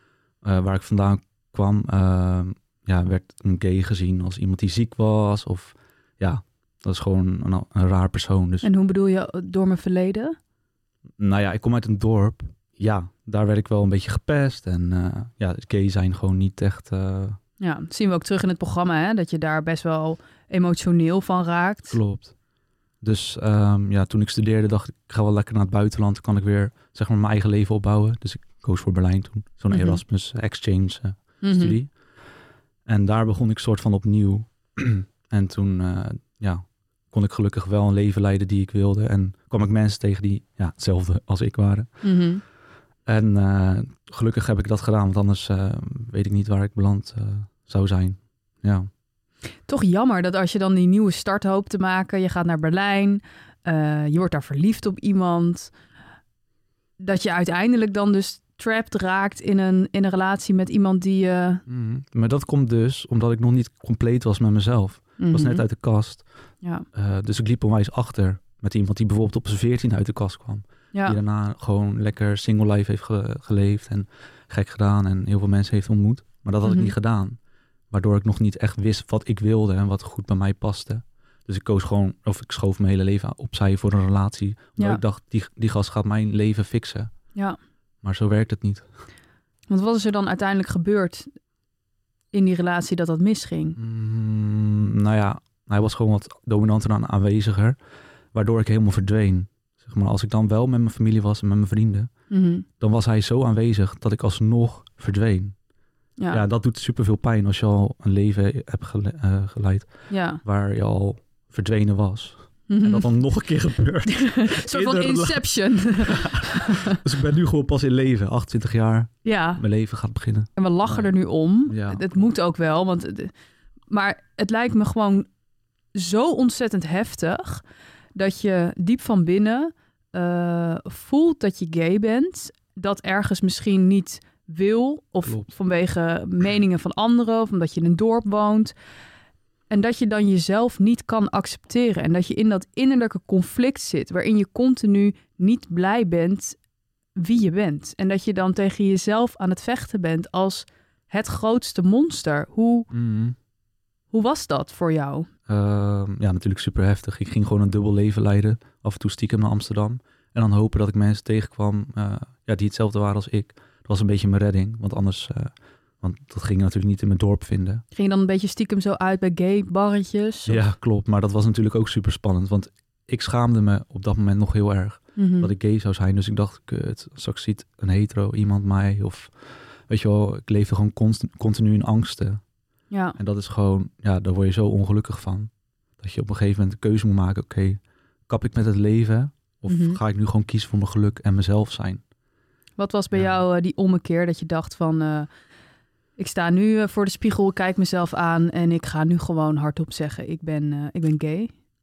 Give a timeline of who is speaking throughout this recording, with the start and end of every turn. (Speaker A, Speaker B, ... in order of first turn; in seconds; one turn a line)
Speaker A: 0.4-8.7
Speaker B: 8.6-10.4
Speaker A: 11.2-17.4
Speaker B: 17.6-22.0
Speaker A: 21.9-22.3
Speaker A: 23.0-31.9
Speaker B: 29.7-30.0
Speaker B: 31.4-31.8
Speaker A: 32.9-41.9
Speaker B: 42.0-42.4
Speaker A: 43.1-48.9
Speaker B: 49.7-55.7
Speaker B: 57.0-61.6
Speaker A: 61.7-66.2
Speaker B: 65.2-65.7
Speaker A: 66.9-77.4
Speaker B: 70.9-71.2
Speaker B: 76.6-76.9
Speaker A: 77.9-87.1
Speaker A: 88.0-88.9
Speaker B: 89.7-91.3
Speaker B: 92.3-93.8
Speaker A: 93.8-97.8
Speaker A: 98.3-102.1
Speaker B: 102.3-102.7
Speaker A: 102.8-105.5
Speaker A: 106.3-121.1
Speaker B: 110.1-110.4
Speaker B: 112.7-113.1
Speaker B: 114.1-117.0
Speaker B: 119.2-119.6
Speaker B: 120.6-123.3
Speaker A: 121.7-122.1
Speaker B: 123.9-125.3
Speaker B: 126.0-127.6
Speaker B: 128.2-138.7
Speaker B: 139.7-146.6
Speaker B: 147.2-152.9
Speaker A: 152.9-153.4
Speaker B: 154.1-155.3
Speaker A: 155.5-167.8
Speaker B: 167.9-170.6
Speaker A: 170.5-179.3
Speaker B: 175.2-175.5
Speaker A: 179.9-182.4
Speaker B: 182.9-183.2
Speaker A: 183.2-192.0
Speaker B: 189.7-190.0
Speaker B: 192.8-195.3
Speaker B: 196.2-201.5